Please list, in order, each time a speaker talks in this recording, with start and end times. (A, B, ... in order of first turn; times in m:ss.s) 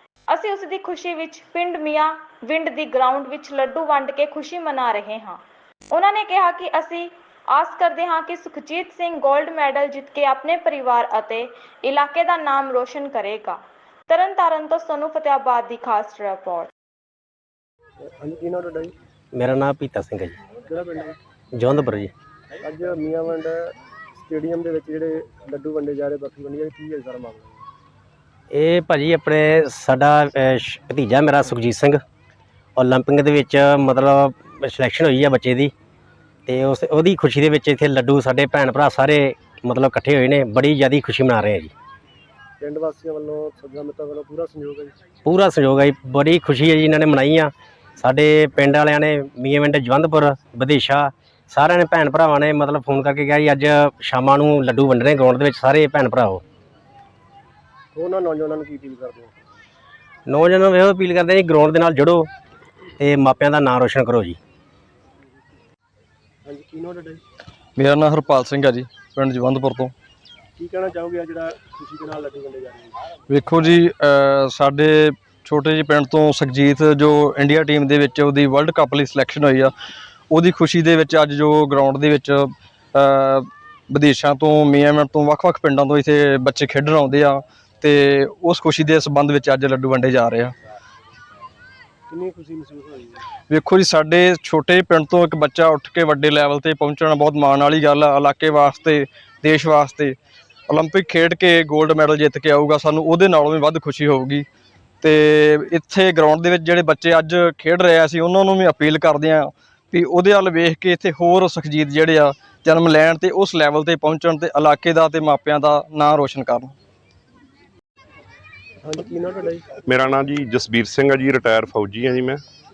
0:00.3-0:16.7 A
0:18.0-0:18.9 B
0:19.3-0:20.4 C
0:20.6-0:21.2 B
0:21.6-0:22.1 C
0:22.6-0:23.7 B
0:24.2-0:27.6 B
0:28.5-0:32.0 C
0:32.8-0:35.7 C
0:36.5-0:41.7 C
0:42.6-0:44.9 B
0:45.2-0:56.4 C
0:57.9-0:59.4 B
1:00.3-1:02.3 C
1:03.0-1:04.4 C
1:06.4-1:07.2 B
1:07.8-1:09.9 D
1:10.6-1:12.9 B
1:13.3-1:19.7 D
1:20.3-1:30.5 D
1:32.1-1:33.2 B
1:33.5-1:40.2 D
1:40.7-1:44.5 D
1:45.0-1:56.8 D
1:58.8-1:59.7 B
1:59.9-2:02.4 E